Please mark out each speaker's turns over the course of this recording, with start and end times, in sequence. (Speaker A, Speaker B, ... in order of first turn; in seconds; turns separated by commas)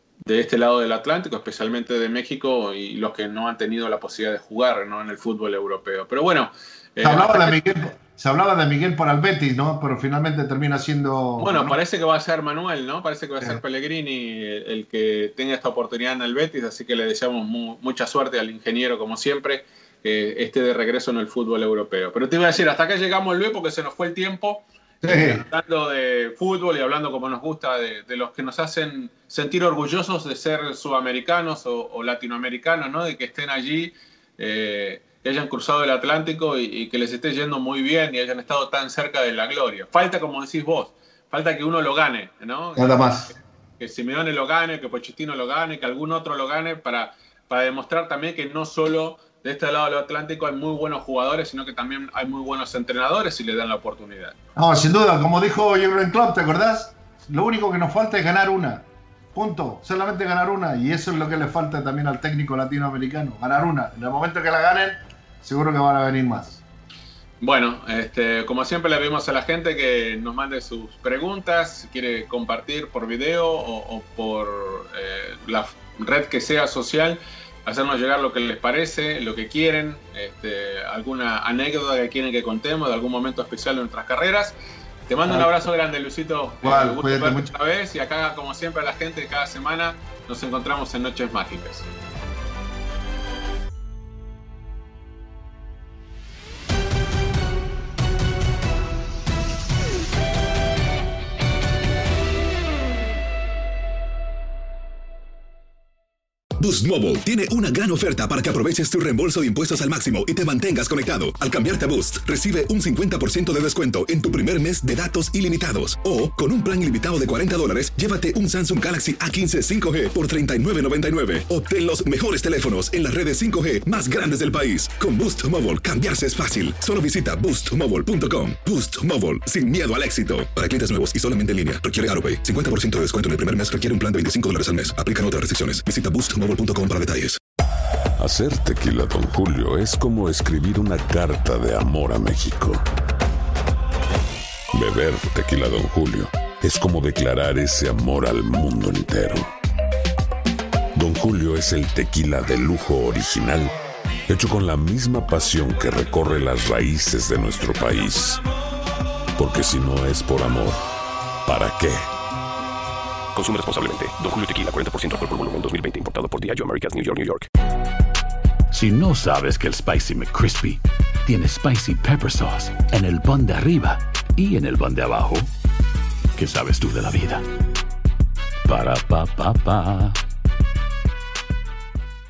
Speaker A: 0.3-7.6, Speaker B: 7.0-11.8, Speaker A: 11.4-54.4, Speaker B: 25.0-25.4, Speaker B: 42.8-43.4, Speaker B: 54.6-66.6, Speaker A: 67.4-84.6, Speaker A: 85.1-91.9, Speaker B: 86.6-87.5, Speaker C: 106.6-137.4, Speaker D: 138.2-142.8, Speaker D: 144.7-149.5, Speaker D: 150.9-153.7, Speaker D: 154.3-158.4, Speaker D: 159.3-160.8, Speaker D: 161.4-162.1, Speaker E: 163.3-167.5, Speaker F: 168.7-175.5, Speaker F: 176.3-177.4, Speaker F: 178.7-180.2